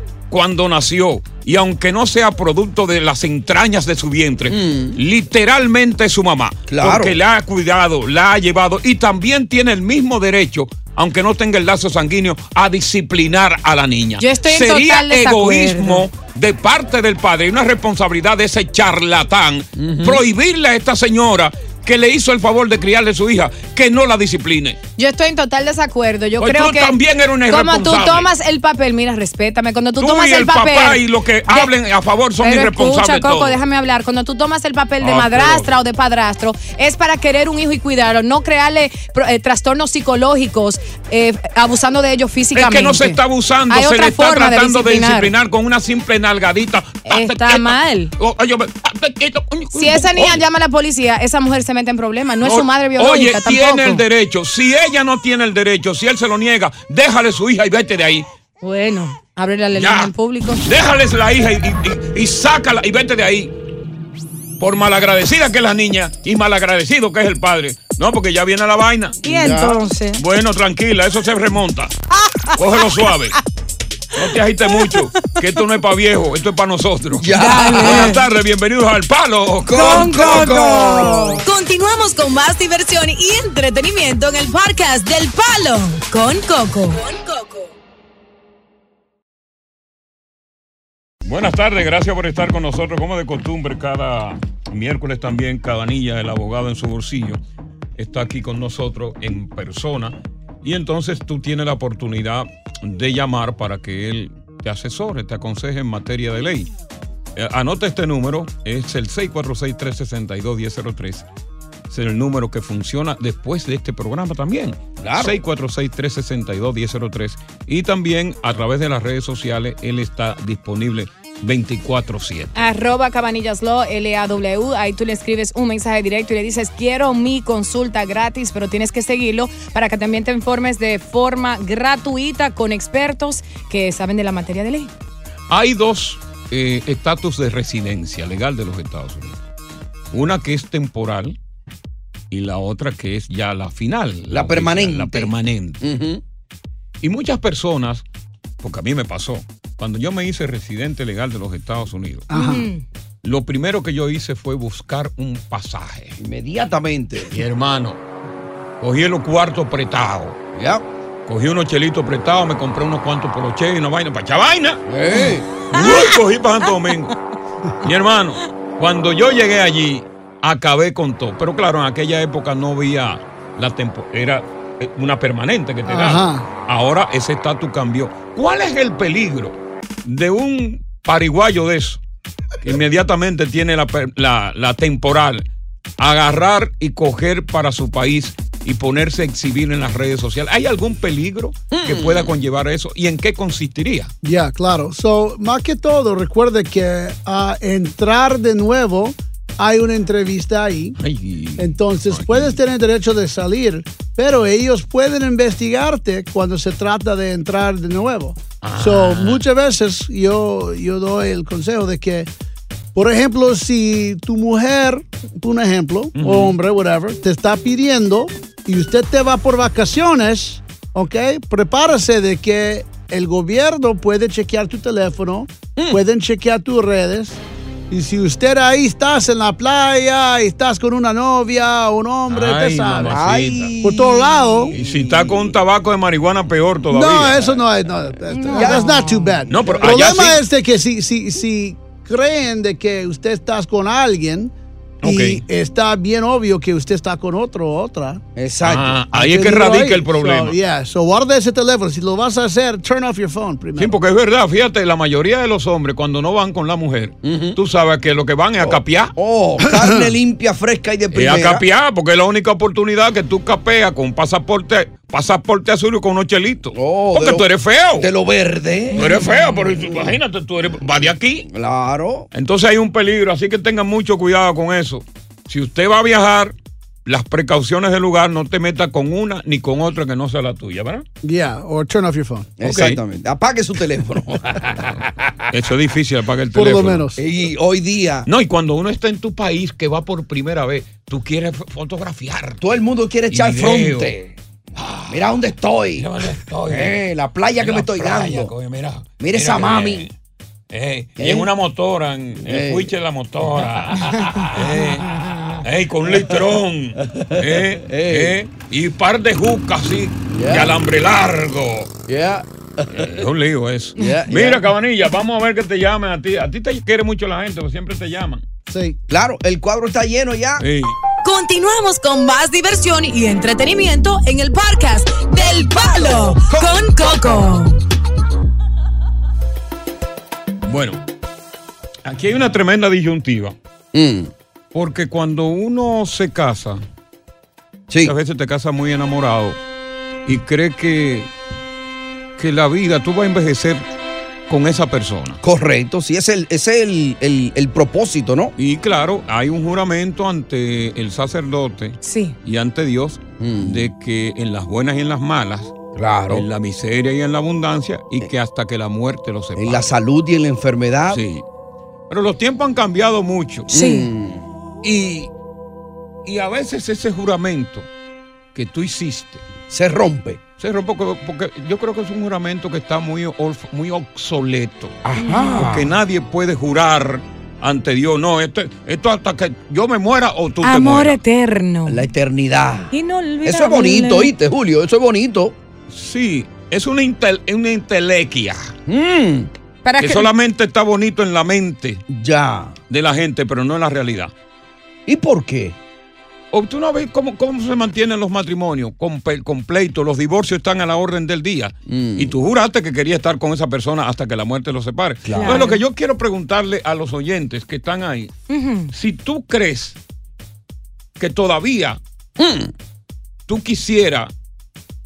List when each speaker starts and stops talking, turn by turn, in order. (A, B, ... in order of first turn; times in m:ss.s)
0:00.3-0:24.8 A
0:04.5-0:05.0 B
0:06.7-0:07.2 B
0:14.2-0:16.1 C
0:19.8-0:20.2 B
0:25.0-0:27.0 C
0:26.4-0:28.3 A
0:27.5-0:31.7 C
0:30.0-0:33.6 A
0:32.4-0:45.3 C
0:35.0-0:35.7 A
0:42.5-0:50.4 A
0:47.0-0:48.1 C
0:49.7-0:54.0 C
0:52.4-0:58.3 A
0:58.6-1:00.6 C
0:59.7-1:00.1 A
1:00.6-1:03.5 A
1:04.6-1:09.2 A
1:09.2-1:10.2 C
1:10.2-1:11.9 A
1:12.6-1:13.4 A
1:14.1-1:20.5 A
1:17.2-1:18.1 B
1:17.4-1:18.2 C
1:19.6-1:21.4 B
1:19.7-1:21.4 C
1:21.4-1:27.7 D
1:31.2-1:37.4 A
1:38.0-1:46.7 A
1:47.4-1:51.2 A
1:51.9-2:02.5 A
1:55.0-1:55.4 B
2:02.5-2:14.9 C
2:15.5-2:19.4 A
2:20.1-2:21.4 A
2:22.3-2:25.8 A
2:24.3-2:26.2 B
2:27.0-2:28.0 A
2:28.6-2:32.3 A
2:32.3-2:32.7 E
2:32.3-2:32.8 C
2:33.2-2:36.2 A
2:36.2-2:37.3 B
2:37.3-2:38.0 A
2:38.8-2:40.4 A
2:40.5-2:40.8 B
2:41.2-2:44.8 A
2:44.9-2:45.5 B
2:45.7-2:47.1 A
2:47.8-3:02.0 A
2:55.8-2:56.5 E
3:02.6-3:05.4 A
3:06.0-3:14.1 A
3:11.7-3:12.3 B
3:14.2-3:21.0 E
3:21.0-3:22.6 A
3:21.6-3:32.3 E
3:28.6-3:29.4 A
3:32.9-3:53.2 E
3:36.2-3:36.6 A
3:52.3-3:53.7 A
3:53.1-3:55.5 B
3:53.8-3:54.7 E
3:54.7-3:57.6 A
3:56.9-4:08.2 E
3:58.3-3:59.4 C
3:58.5-3:58.9 B
3:59.5-4:00.4 A
3:59.5-3:59.9 B
4:05.0-4:05.4 A
4:08.4-4:09.0 B
4:08.6-4:10.6 A
4:09.1-4:13.9 E
4:13.8-4:19.1 A
4:17.2-4:17.6 B
4:18.6-4:21.6 B
4:19.6-4:20.1 E
4:21.1-4:28.1 A
4:26.7-4:27.4 B
4:28.0-4:29.1 B
4:29.0-4:31.4 A
4:29.8-4:30.1 B
4:31.4-4:32.3 B
4:32.3-4:36.5 A
4:37.0-4:41.0 A
4:41.2-4:42.6 E
4:42.6-4:44.9 B
4:42.6-4:43.0 A
4:45.5-4:47.1 A
4:46.5-4:47.2 E
4:47.2-4:48.3 B
4:48.2-4:52.6 A
4:52.6-4:54.2 B
4:53.3-4:54.2 A
4:54.8-4:55.3 A
4:55.1-4:56.1 B
4:56.0-4:57.0 A
4:56.7-4:58.5 B
4:57.6-5:00.1 A
4:59.2-5:00.1 B
5:00.7-5:11.9 A
5:01.2-5:01.5 B
5:02.4-5:02.9 B
5:07.1-5:08.4 B
5:10.3-5:10.7 B
5:12.1-5:13.1 B
5:12.9-5:18.4 A
5:14.0-5:14.6 B
5:18.7-5:19.0 E
5:19.1-5:20.6 B
5:20.6-5:20.9 A
5:21.2-5:27.8 D
5:26.0-5:27.0 B
5:30.6-5:31.0 A
5:32.0-5:33.5 A
5:33.9-5:34.3 B
5:34.7-5:36.8 A
5:38.0-5:39.6 A
5:40.2-5:41.3 A
5:42.4-5:43.8 A
5:44.5-5:45.4 A
5:45.4-5:48.5 B
5:48.6-5:55.7 A
5:52.0-5:52.3 C
5:53.4-5:53.9 B
5:55.9-5:56.4 B
5:56.3-5:59.9 A
5:59.6-6:01.2 B
6:01.1-6:01.4 A
6:02.1-6:03.7 A
6:03.7-6:04.1 C
6:03.7-6:04.4 B
6:04.8-6:05.3 A
6:06.2-6:07.9 A
6:08.5-6:09.4 A
6:09.7-6:10.4 B
6:10.6-6:15.0 A
6:15.0-6:15.9 B
6:15.2-6:15.7 C
6:15.6-6:21.2 A
6:20.6-6:22.0 C
6:21.8-6:25.5 B
6:22.9-6:24.3 C
6:25.9-6:28.7 A
6:28.9-6:29.5 B
6:29.8-6:30.3 C
6:30.0-6:32.0 A
6:32.1-6:32.8 B
6:32.9-6:34.3 A
6:35.0-6:35.8 B
6:36.5-6:48.3 A
6:41.9-6:42.3 B
6:45.2-6:45.7 B
6:45.4-6:45.8 C
6:48.5-6:48.9 C
6:48.9-6:50.0 A
6:51.2-6:52.0 A
6:52.4-6:52.7 B
6:53.5-6:54.3 A